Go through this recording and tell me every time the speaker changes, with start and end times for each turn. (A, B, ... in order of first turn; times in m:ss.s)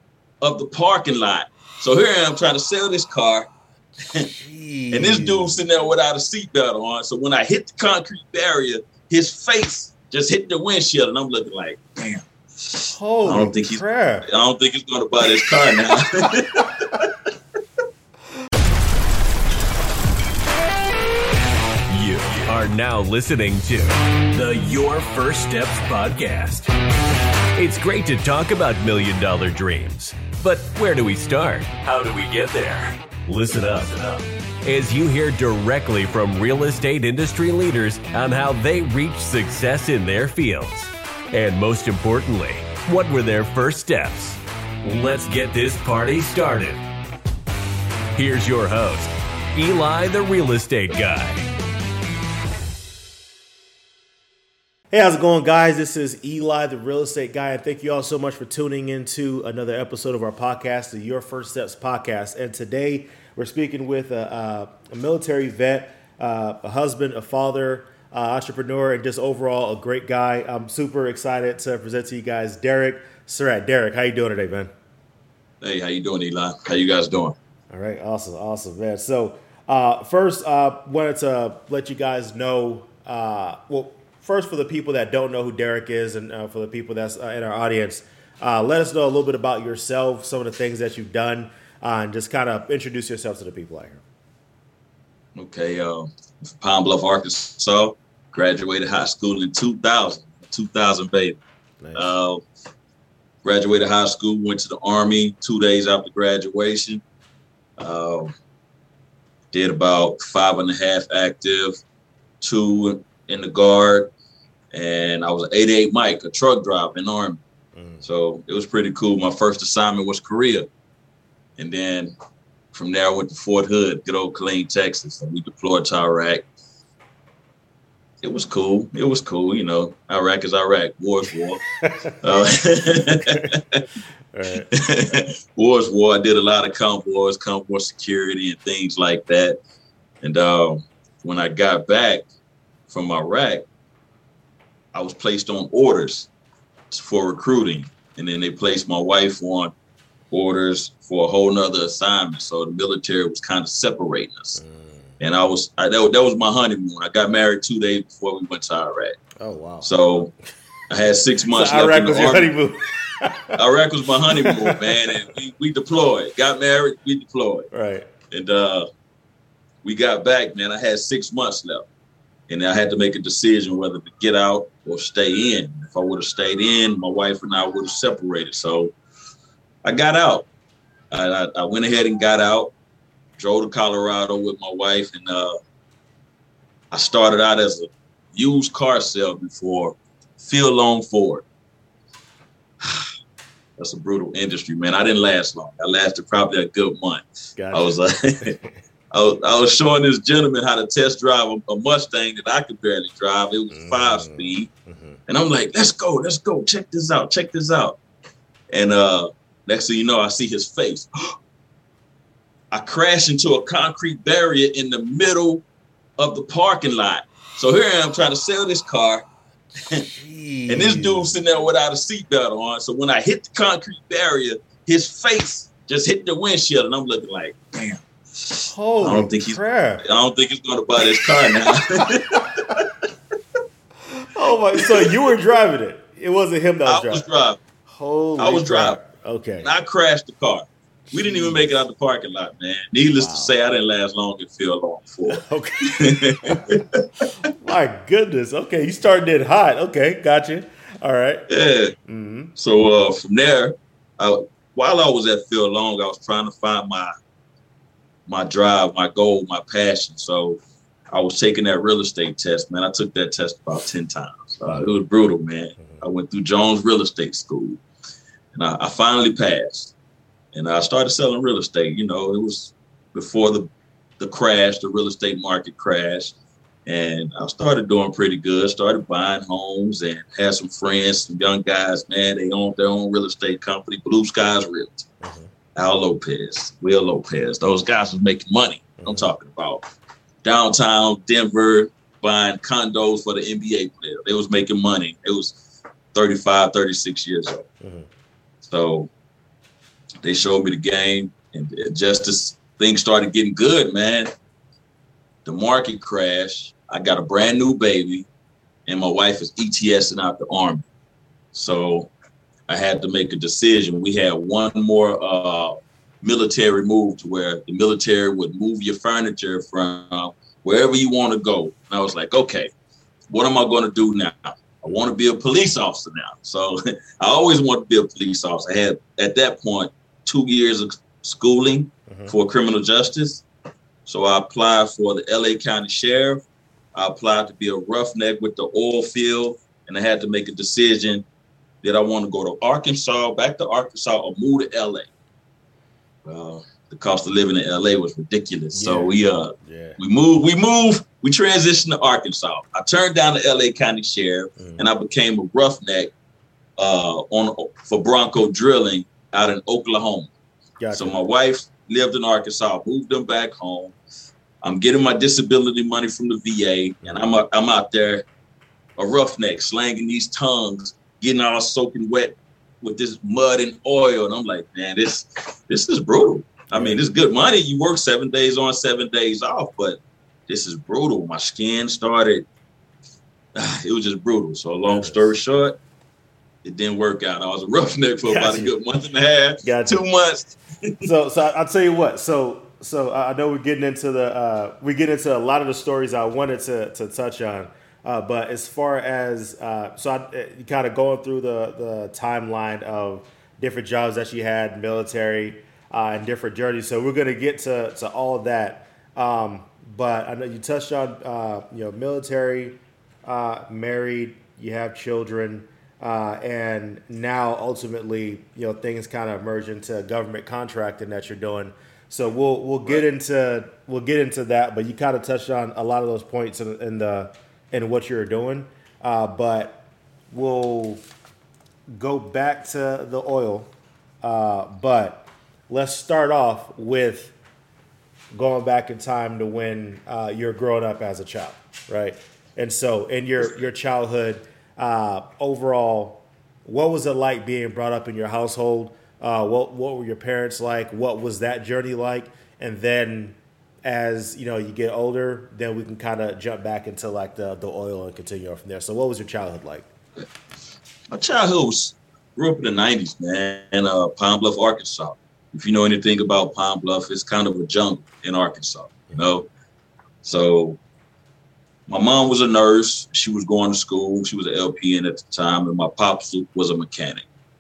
0:00.4-0:03.5 A
0:04.3-0:05.6 B
0:04.9-0:17.1 A
0:12.9-0:14.3 B
0:21.9-0:26.7 C
0:27.6-0:46.8 C
0:48.2-0:51.4 C
0:54.9-1:14.7 B
1:15.6-1:17.4 A
1:17.7-1:34.0 B
1:35.3-1:41.4 A
1:41.8-1:42.1 B
1:42.0-1:42.4 A
1:43.4-1:47.0 A
1:47.8-1:48.3 A
1:49.5-1:51.8 A
1:52.4-1:54.1 A
1:54.7-1:57.4 A
1:57.8-1:58.0 B
1:58.0-2:00.7 A
2:01.6-2:02.1 A
2:02.7-2:06.4 A
2:08.2-2:11.6 A
2:11.8-2:12.1 B
2:12.2-2:13.8 A
2:13.3-2:13.5 B
2:14.3-2:14.7 B
2:14.7-2:19.6 A
2:20.2-2:22.2 A
2:22.9-2:23.6 A
2:24.9-2:26.3 A
2:26.9-2:29.7 A
2:30.3-2:34.6 A
2:34.6-2:35.0 B
2:35.2-2:39.2 A
2:39.4-2:39.9 B
2:39.8-2:40.3 A
2:40.9-2:42.5 A
2:41.5-2:43.6 B
2:43.6-2:47.7 A
2:44.3-2:45.2 B
2:47.7-2:48.1 B
2:48.3-2:48.9 A
2:49.8-2:51.8 A
2:52.5-2:58.9 A
2:59.8-3:00.5 A
3:01.1-3:02.7 A
3:03.4-3:05.6 A
3:06.9-3:11.4 A
3:12.8-3:13.1 A
3:13.8-3:18.6 A
3:17.6-3:18.7 B
3:19.1-3:24.7 A
3:23.7-3:25.2 B
3:25.3-3:28.0 A
3:28.7-3:31.3 A
3:32.7-3:35.6 A
3:36.2-3:39.2 A
3:39.8-3:40.1 A
3:40.1-3:41.3 B
3:40.7-3:52.8 A
3:48.7-3:50.0 B
3:51.2-3:51.6 B
3:54.1-3:57.2 B
3:54.7-3:55.1 A
3:56.8-3:57.6 A
3:57.9-3:59.7 B
3:58.4-3:59.0 A
3:59.6-4:07.5 A
4:01.1-4:01.7 B
4:03.2-4:03.5 B
4:05.3-4:06.8 B
4:07.4-4:11.4 B
4:11.5-4:11.9 A
4:12.1-4:12.5 B
4:12.5-4:17.1 A
4:18.3-4:20.6 A
4:21.1-4:27.8 A
4:28.5-4:29.9 A
4:30.5-4:33.7 A
4:34.2-4:36.4 A
4:36.9-4:45.1 A
4:45.2-4:45.5 B
4:45.8-4:49.8 A
4:49.0-4:49.3 B
4:50.4-4:55.6 A
4:56.1-4:57.7 A
4:57.8-4:58.1 B
4:58.6-4:59.1 A
5:00.2-5:04.3 A
5:05.4-5:08.3 A
5:08.9-5:10.9 A
5:11.5-5:12.1 A
5:12.7-5:22.7 A
5:23.3-5:33.4 A
5:32.1-5:32.3 B
5:34.1-5:36.4 A
5:37.0-5:41.2 A
5:41.8-5:45.1 A
5:46.2-5:56.1 A
5:48.7-5:50.0 B
5:54.6-5:54.9 B
5:56.8-6:00.3 A
6:00.8-6:01.2 B
6:00.9-6:04.0 A
6:04.6-6:08.2 A
6:07.0-6:07.4 B
6:09.0-6:22.5 A
6:16.7-6:17.0 B
6:23.6-6:25.8 A
6:24.9-6:25.3 B
6:26.6-6:31.1 A
6:28.2-6:28.7 B
6:29.6-6:30.0 B
6:31.0-7:11.0 B
7:11.9-7:13.7 B
7:14.2-7:17.4 B
7:18.3-7:39.9 B
7:41.1-7:49.5 A
7:50.2-7:50.8 A
7:51.9-7:57.2 A